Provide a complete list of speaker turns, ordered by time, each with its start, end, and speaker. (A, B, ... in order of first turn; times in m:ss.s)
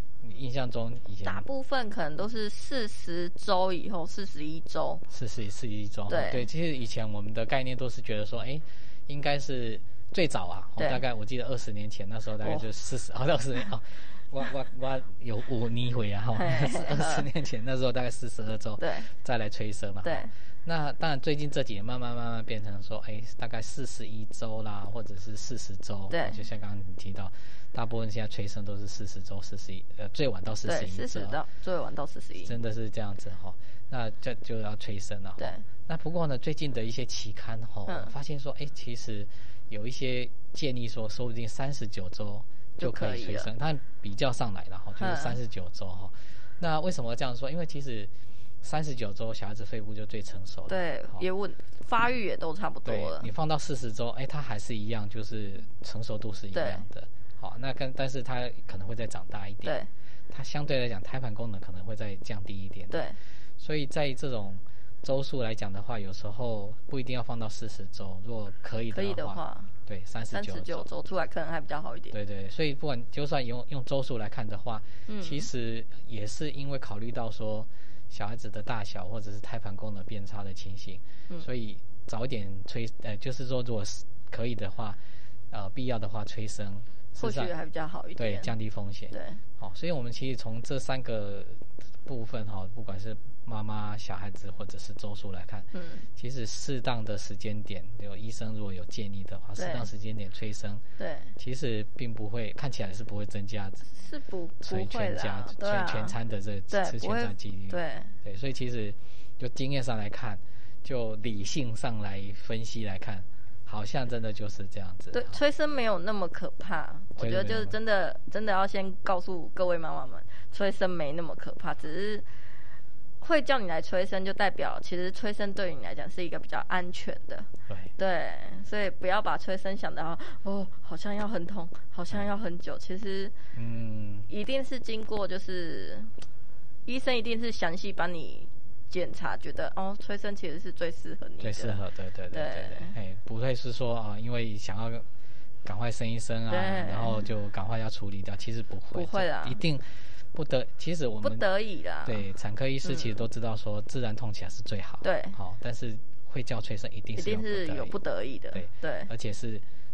0:00.2-0:01.4 A
0:01.2-0:05.0 B
0:05.1-0:31.4 A
0:06.1-0:06.5 B
0:12.4-0:12.7 B
0:16.4-0:17.2 B
0:18.8-0:19.1 B
0:20.0-0:20.3 B
0:26.1-0:26.4 B
0:30.6-0:32.5 B
0:32.4-0:51.2 A
0:35.4-0:35.6 B
0:37.9-0:38.1 B
0:42.8-0:43.5 B
0:45.0-0:45.4 B
0:50.7-0:53.3 B
0:52.8-0:59.8 A
0:56.5-0:56.8 B
0:59.6-0:59.9 B
1:00.3-1:03.1 A
1:02.9-1:03.2 B
1:03.6-1:10.9 A
1:08.9-1:09.7 B
1:10.3-1:12.1 B
1:12.1-1:27.5 A
1:15.1-1:15.5 B
1:27.2-1:28.5 B
1:28.2-1:40.8 A
1:29.1-1:29.4 B
1:35.7-1:36.0 B
1:39.6-1:39.9 B
1:41.0-1:41.3 B
1:41.4-1:43.9 A
1:43.9-1:46.2 B
1:44.6-1:55.4 A
1:46.7-1:48.2 B
1:55.1-2:02.3 B
1:57.2-1:57.8 A
2:03.2-2:13.3 B
2:07.7-2:07.9 A
2:13.5-2:14.3 A
2:14.3-2:16.1 B
2:16.8-2:21.8 B
2:21.4-2:25.0 A
2:22.3-2:22.9 B
2:25.6-2:31.4 A
2:26.5-2:27.3 B
2:28.9-2:29.6 B
2:31.2-2:32.2 B
2:32.0-2:37.9 A
2:32.8-2:33.2 B
2:35.0-2:35.4 B
2:37.2-2:39.1 B
2:38.5-2:39.6 A